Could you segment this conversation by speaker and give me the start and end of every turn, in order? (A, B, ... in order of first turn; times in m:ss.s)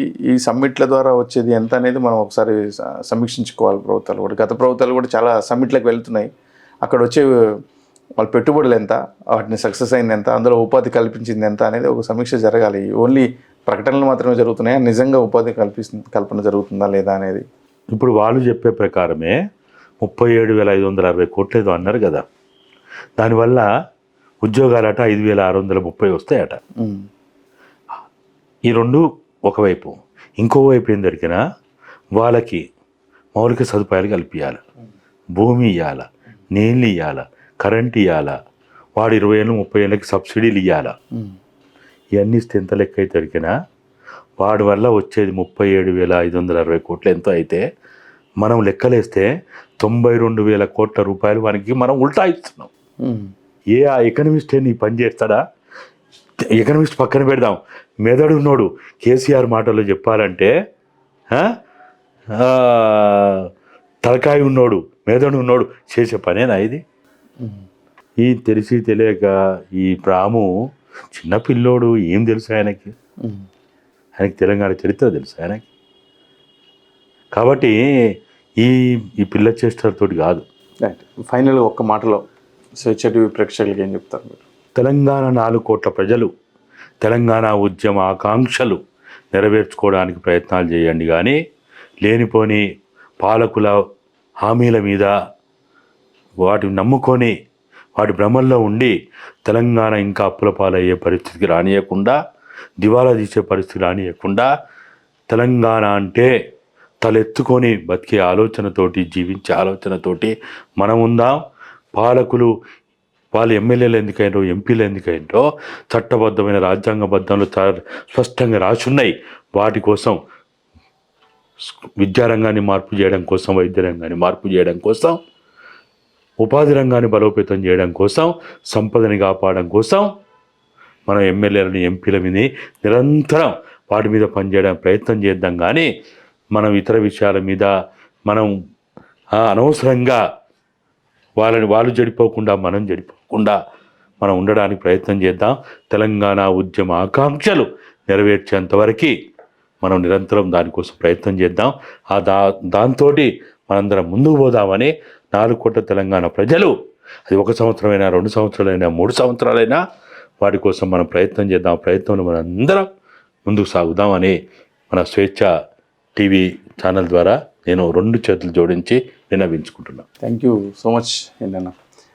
0:00.3-0:06.3 A
0:06.8-0:07.3 A
0:08.2-0:17.4 A
0:17.9-0:19.4 B
0:20.0-0:22.2 B
0:23.2-0:23.7 B
0:24.4-0:26.6 B
0:26.8-0:27.0 A
0:28.7-0:31.4 B
0:32.2-0:32.6 B
0:33.4-0:34.6 B
0:35.4-0:38.4 B
0:39.0-0:41.0 B
0:42.2-0:43.5 B
0:44.4-0:47.6 B
0:48.4-0:49.3 B
0:49.8-0:52.7 B
0:53.0-0:53.3 A
0:53.7-0:55.4 B
0:56.5-1:00.5 B
1:02.3-1:03.5 B
1:04.0-1:06.8 B
1:08.2-1:10.5 B
1:11.1-1:12.9 B
1:14.2-1:15.6 B
1:17.3-1:17.8 B
1:18.6-1:20.4 B
1:20.8-1:22.2 A
1:22.8-1:24.4 A
1:24.8-1:26.3 B
1:27.0-1:28.8 B
1:29.3-1:31.4 B
1:32.0-1:32.6 B
1:33.2-1:33.8 B
1:34.4-1:35.1 B
1:36.4-1:37.3 B
1:38.0-1:38.9 B
1:39.5-1:42.2 B
1:42.8-1:44.5 B
1:45.3-1:46.3 B
1:47.0-1:51.4 B
1:52.0-1:52.5 B
1:53.3-2:00.2 B
2:01.7-2:05.2 B
2:06.4-2:10.1 B
2:11.1-2:15.9 B
2:16.5-2:17.7 B
2:19.4-2:20.2 B
2:21.4-2:23.6 B
2:24.2-2:29.1 B
2:29.8-2:36.7 B
2:37.3-2:39.8 B
2:40.4-2:42.9 B
2:43.5-2:44.4 B
2:44.9-2:45.5 B
2:46.2-2:50.0 B
2:50.2-2:51.7 A